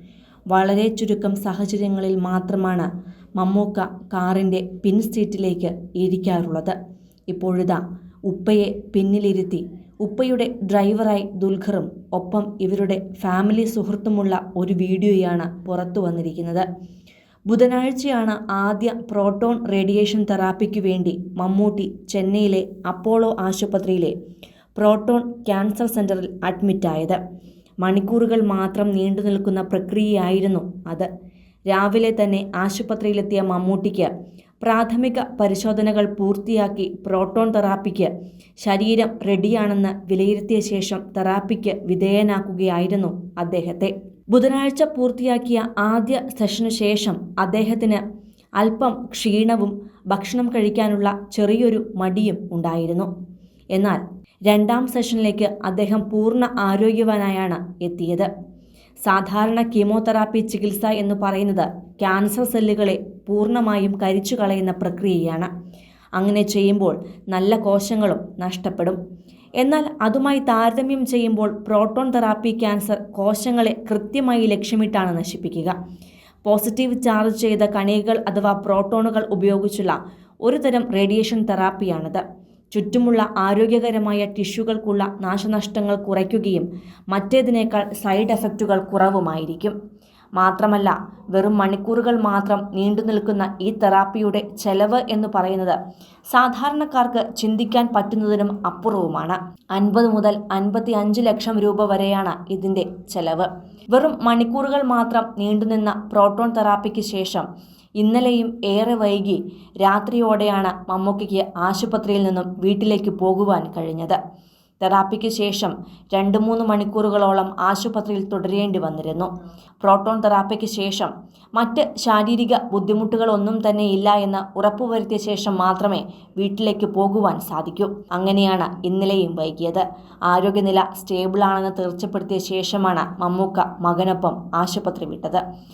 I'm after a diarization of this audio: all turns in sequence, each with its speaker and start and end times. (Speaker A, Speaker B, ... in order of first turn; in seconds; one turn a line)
Speaker A: 0.5-6.8
Speaker A: 7.3-16.6
Speaker A: 17.5-24.1
Speaker A: 24.7-27.2
Speaker A: 27.8-31.1
Speaker A: 31.7-34.1
Speaker A: 34.6-38.1
Speaker A: 38.6-48.0
Speaker A: 48.6-53.1
Speaker A: 53.7-58.3
Speaker A: 59.0-65.5
Speaker A: 66.2-69.0
Speaker A: 69.6-75.7
Speaker A: 76.4-82.2
Speaker A: 82.7-89.7
Speaker A: 90.4-95.8
Speaker A: 96.3-107.5
Speaker A: 108.0-114.2
Speaker A: 114.8-119.3
Speaker A: 119.8-135.4